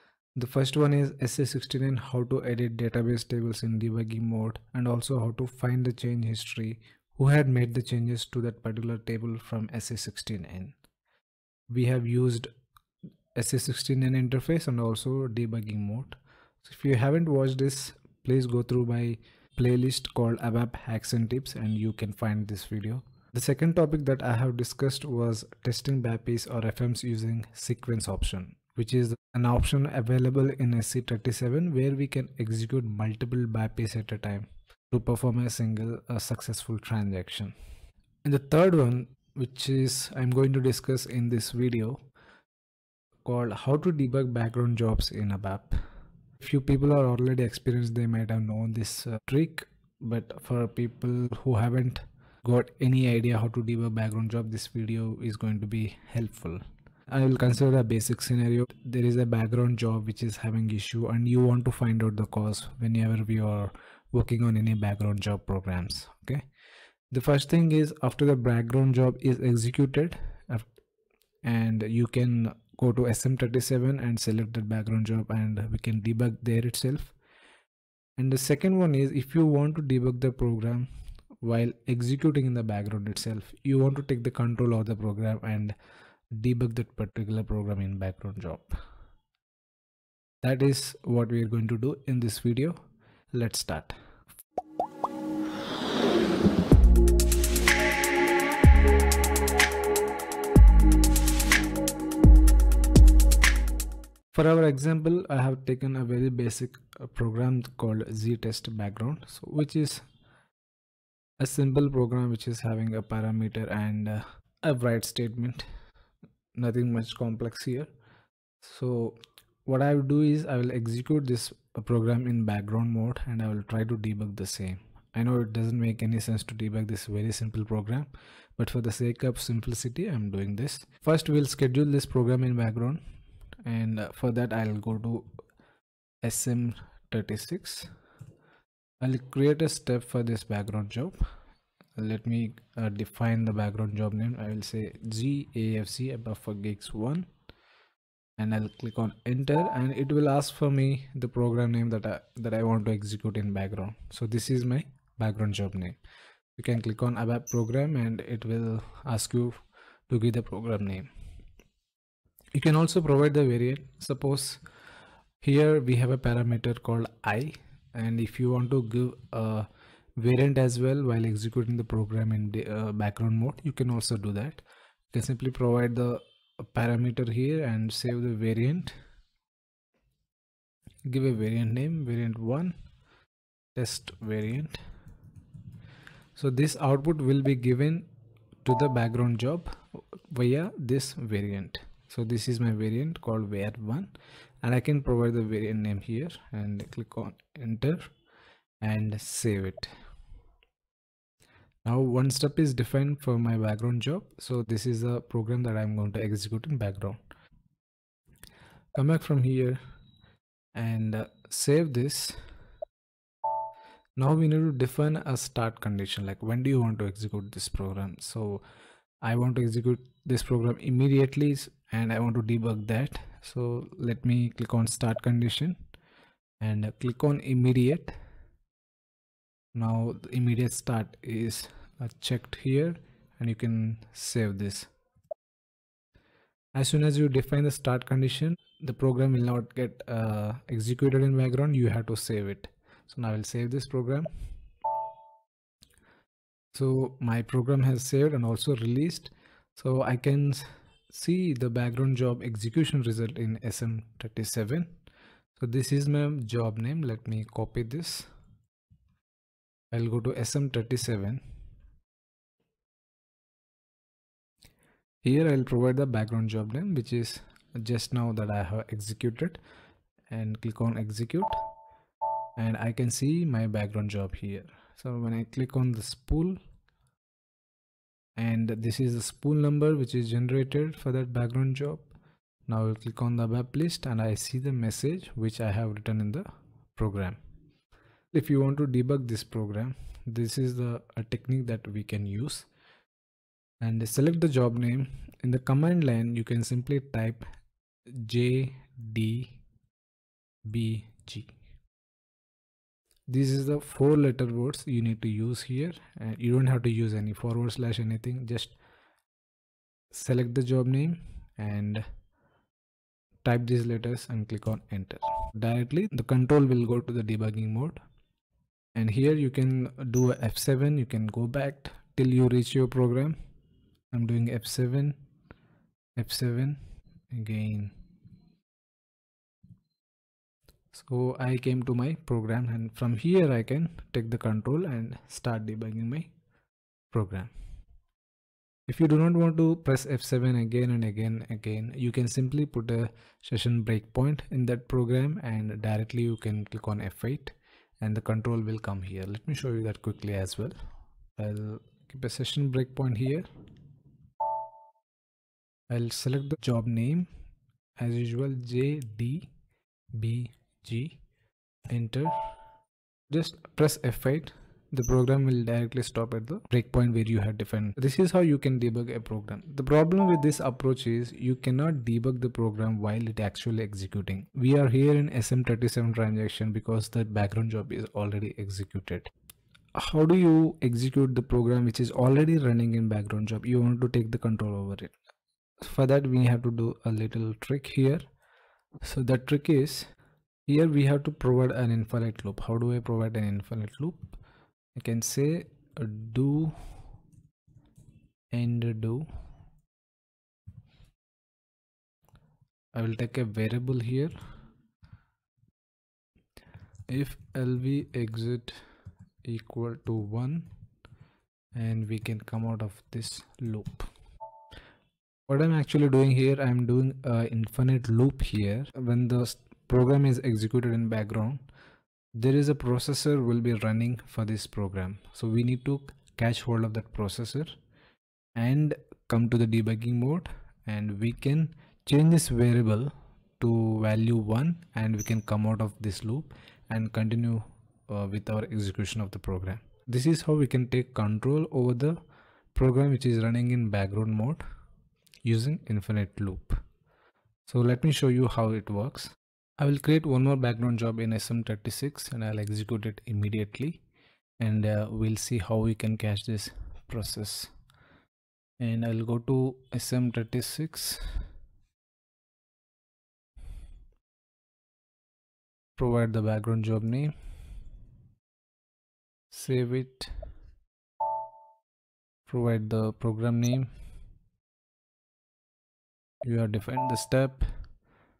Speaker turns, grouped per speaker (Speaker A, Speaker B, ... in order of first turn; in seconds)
Speaker A: 0.4-10.8, 11.7-12.5, 13.3-37.5, 38.2-42.0, 43.2-45.8, 46.4-66.4, 67.1-70.7, 71.4-77.2, 78.2-80.9, 81.4-85.8, 86.3-88.8, 90.4-92.8, 93.3-94.0, 104.3-110.0, 111.4-115.7, 116.5-117.9, 118.6-133.0, 133.7-135.3, 136.2-137.9, 139.0-141.2, 142.0-147.3, 148.4-156.0, 156.6-161.1, 162.5-164.6, 165.4-179.0, 181.1-182.8, 183.8-184.8, 186.4-188.1, 188.6-198.1, 198.8-199.9, 201.8-207.2, 208.9-209.8, 210.8-212.4, 214.2-218.6, 219.2-225.8, 226.6-228.1, 229.8-234.9, 236.8-244.3, 246.7-254.9, 255.6-258.3, 259.9-261.4, 265.2-269.6, 270.3-271.6, 272.6-276.6, 278.4-282.1, 282.7-287.4, 288.3-292.7, 293.8-297.4, 298.1-299.6, 300.7-301.6, 303.3-308.8, 310.1-312.1, 313.4-318.0, 318.9-323.4, 324.1-325.2, 326.2-326.8, 327.3-327.9, 330.9-336.3, 337.1-337.5, 338.9-350.8, 351.4-353.5, 355.9-357.3, 358.0-359.5, 360.1-361.2, 361.9-362.4, 363.3-379.3, 379.9-385.1, 385.8-388.2, 389.0-390.1, 390.7-394.4, 394.9-396.8, 398.5-399.3, 402.9-404.3, 407.1-408.8, 409.4-410.7, 411.7-414.1, 415.5-421.6, 422.4-427.8, 428.6-442.2, 442.7-444.6, 445.4-446.8, 447.7-454.0, 454.6-457.7, 458.8-461.4, 466.0-467.3, 469.5-470.3, 472.5-473.9, 476.4-477.7